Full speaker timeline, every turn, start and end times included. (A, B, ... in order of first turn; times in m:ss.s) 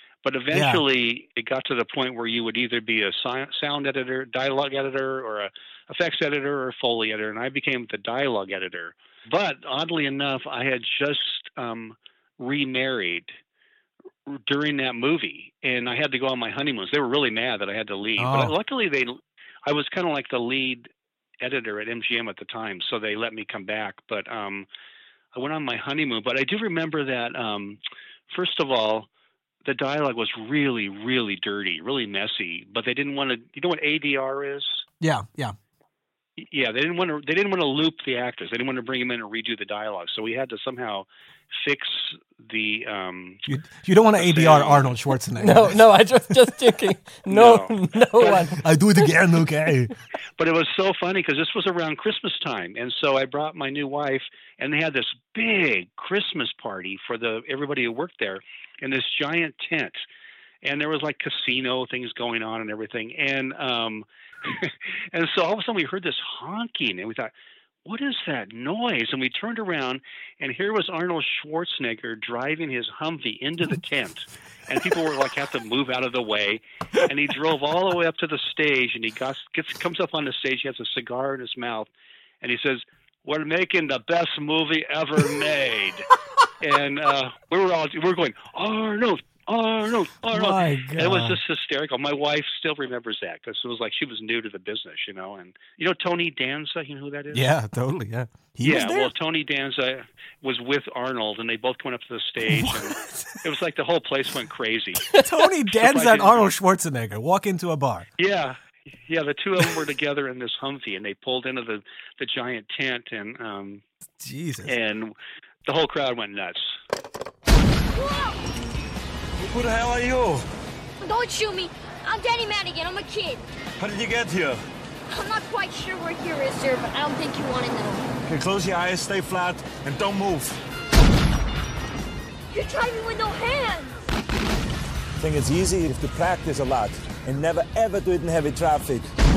0:00.2-0:13.3 A
0:00.5-0:00.8 B
0:14.3-0:20.9 A
0:18.2-0:18.6 B
0:21.4-0:24.7 A
0:25.3-0:27.8 A
0:28.3-0:29.1 A
0:29.6-0:34.8 A
0:35.0-0:35.6 B
0:36.4-0:41.1 A
0:41.6-0:43.4 A
0:43.5-0:45.8 B
0:44.2-0:44.9 A
0:45.4-0:49.1 C
0:47.3-0:48.5 A
0:48.6-0:49.9 B
0:50.4-1:00.0 A
1:00.6-1:07.3 A
1:07.8-1:21.9 A
1:22.4-1:26.1 A
1:26.6-1:37.5 A
1:30.3-1:31.4 B
1:37.3-1:39.1 B
1:38.6-1:45.1 A
1:42.5-1:43.1 B
1:45.2-1:48.1 B
1:45.7-1:46.5 A
1:48.2-1:53.8 A
1:54.2-1:54.7 B
1:54.7-1:55.2 A
1:55.7-1:56.7 A
1:57.9-1:58.5 D
1:59.5-2:00.4 E
2:01.0-2:03.4 D
2:03.8-2:04.6 E
2:05.1-2:08.1 D
2:08.3-2:10.5 E
2:12.5-2:14.0 D
2:15.2-2:19.1 E